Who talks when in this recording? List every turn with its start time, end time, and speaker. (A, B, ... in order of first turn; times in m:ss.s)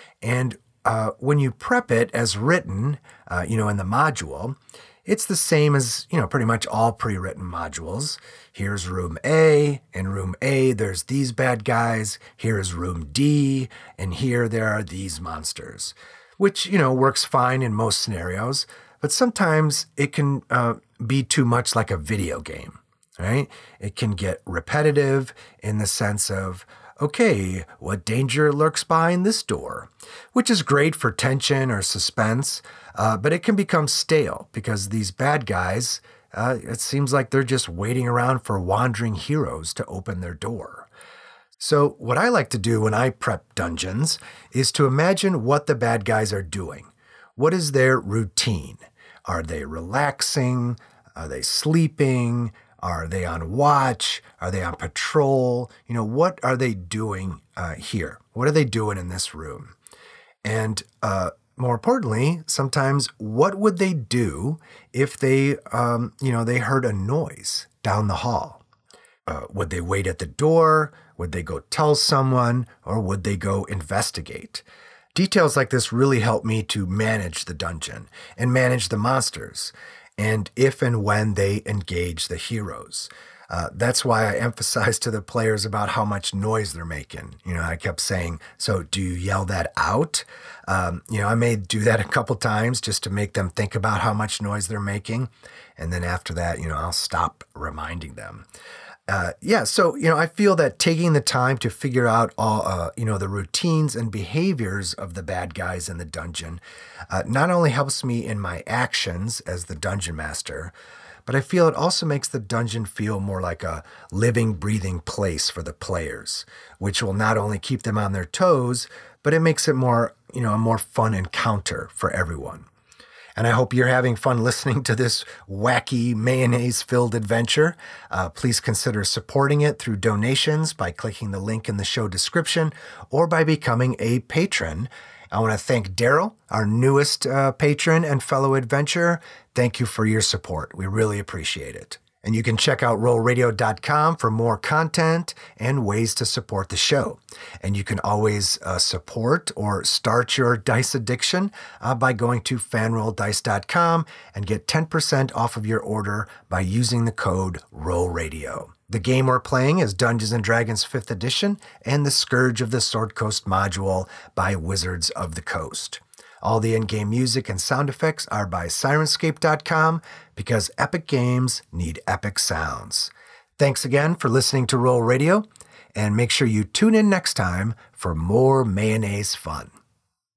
0:00.2-0:40.9 A
0:41.6-0:59.7 A
1:00.4-1:08.6 A
1:09.3-1:14.6 A
1:15.2-1:38.4 A
1:39.1-1:50.7 A
1:51.3-2:02.7 A
2:03.4-2:59.7 A